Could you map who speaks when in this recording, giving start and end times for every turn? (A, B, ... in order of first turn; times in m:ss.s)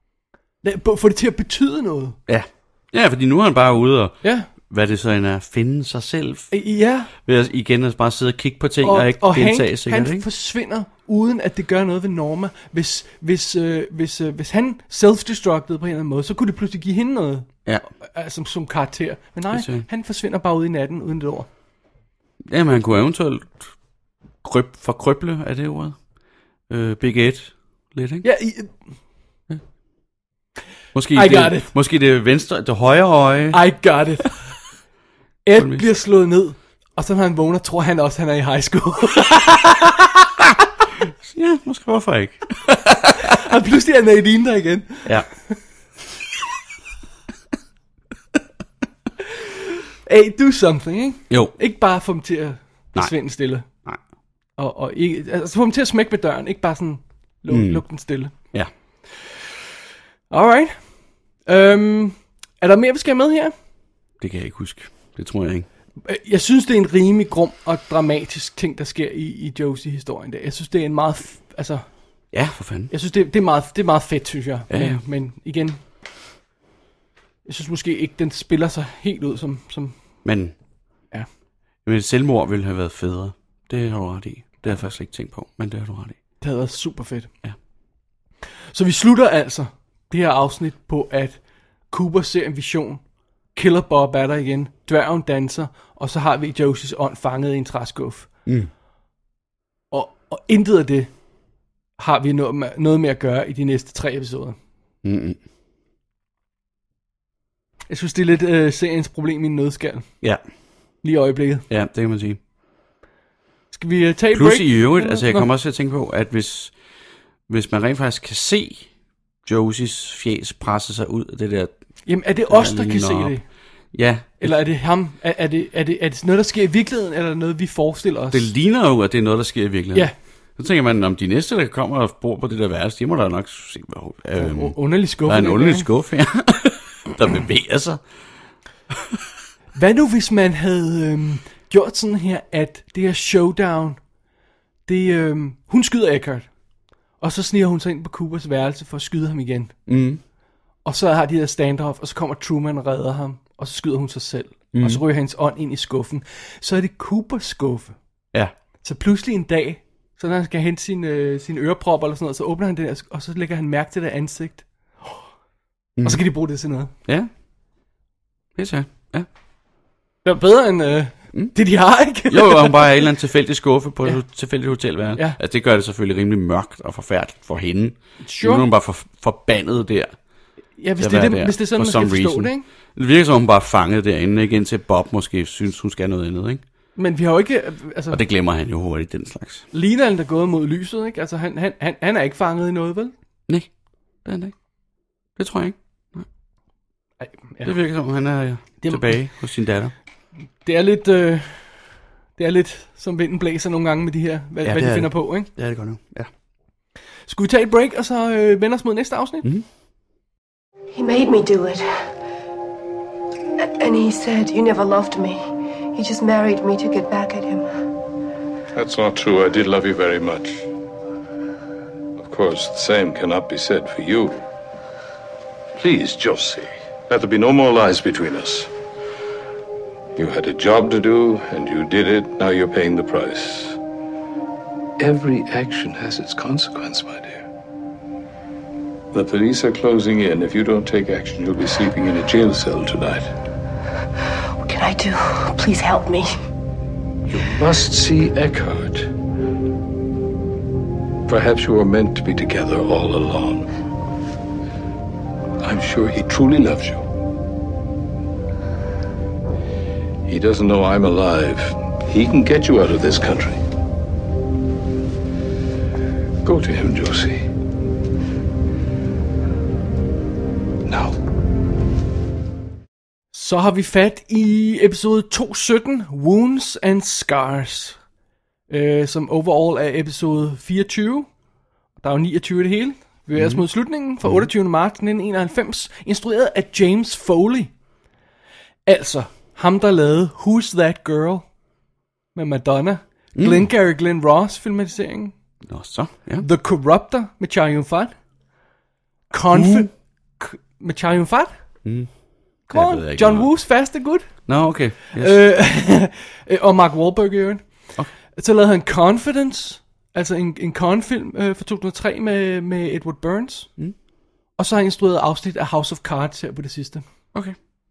0:00.6-0:02.2 A
0:02.3-0:06.5 B
0:04.2-0:04.5 A
0:06.5-0:07.1 A
0:07.2-0:10.2 B
0:08.8-0:21.5 A
0:19.5-0:19.8 B
0:22.5-0:23.7 B
0:24.4-0:26.0 B
0:26.7-0:28.2 B
0:28.2-0:28.7 A
0:30.9-0:33.6 B
0:31.1-0:31.7 A
0:33.5-0:34.4 A
0:35.4-0:40.1 A
0:35.6-0:35.9 B
0:41.2-0:43.3 B
0:43.2-0:45.6 A
0:50.0-0:53.7 A
0:52.9-0:54.0 B
0:54.6-0:58.3 A
0:57.5-0:57.8 B
0:58.3-0:58.7 B
1:00.3-1:00.7 A
1:01.4-1:03.5 A
1:04.2-1:05.7 B
1:06.0-1:11.8 A
1:12.3-1:12.9 B
1:12.9-1:15.8 A
1:14.7-1:15.0 B
1:17.4-1:19.9 A
1:20.2-1:20.5 B
1:21.8-1:26.2 B
1:26.4-1:27.3 A
1:28.7-1:33.0 A
1:33.5-1:38.3 A
1:39.9-1:41.1 A
1:42.0-1:44.6 A
1:45.0-1:45.4 B
1:47.9-1:50.1 A
1:51.0-1:51.7 A
1:51.7-1:52.4 B
1:53.7-1:55.5 A
1:54.3-1:56.7 B
1:57.5-1:58.9 B
1:59.4-2:01.7 B
2:02.0-2:03.4 A
2:02.4-2:03.4 B
2:03.9-2:04.6 B
2:04.4-2:08.5 A
2:08.3-2:18.0 B
2:14.4-2:15.9 A
2:19.7-2:24.0 A
2:24.9-2:26.5 A
2:27.2-2:29.8 A
2:29.9-2:30.2 B
2:30.8-2:38.0 A
2:34.7-2:35.0 B
2:38.8-2:45.2 A
2:46.0-2:46.2 B
2:46.0-2:46.9 A
2:47.0-2:47.3 B
2:48.6-2:49.3 B
2:50.2-2:53.1 A
2:52.2-3:00.2 B
2:58.2-2:58.6 A
3:00.8-3:02.6 A
3:01.0-3:06.6 B
3:07.0-3:08.2 A
3:08.1-3:09.6 B
3:09.7-3:13.1 A
3:14.2-3:14.5 B
3:15.4-3:16.3 B
3:17.2-3:17.7 A
3:17.6-3:19.9 B
3:18.8-3:19.1 A
3:20.6-3:25.5 A
3:24.6-3:26.3 B
3:27.3-3:29.4 A
3:30.9-3:32.1 C
3:33.8-3:37.7 C
3:38.7-3:40.6 D
3:42.2-3:44.4 D
3:45.8-3:48.7 D
3:50.2-3:53.8 D
3:55.0-3:57.4 D
3:59.1-4:03.3 D
4:04.6-4:06.3 C
4:07.3-4:09.1 D
4:11.3-4:13.7 D
4:15.6-4:17.0 D
4:20.2-4:23.6 D
4:26.4-4:27.5 D
4:30.8-4:31.2 D
4:33.3-4:38.0 A
4:38.7-4:41.3 A
4:42.0-4:47.7 A
4:43.4-4:43.6 B
4:48.8-4:51.5 A
4:52.3-4:55.3 A
4:53.4-4:53.7 B
4:55.6-4:56.5 B
4:56.4-4:58.1 A
4:59.3-5:01.5 A
4:59.5-4:59.9 B
5:01.8-5:03.6 B
5:02.7-5:04.5 A
5:04.4-5:05.4 B
5:05.1-5:07.8 A
5:08.3-5:13.7 A
5:14.6-5:17.0 A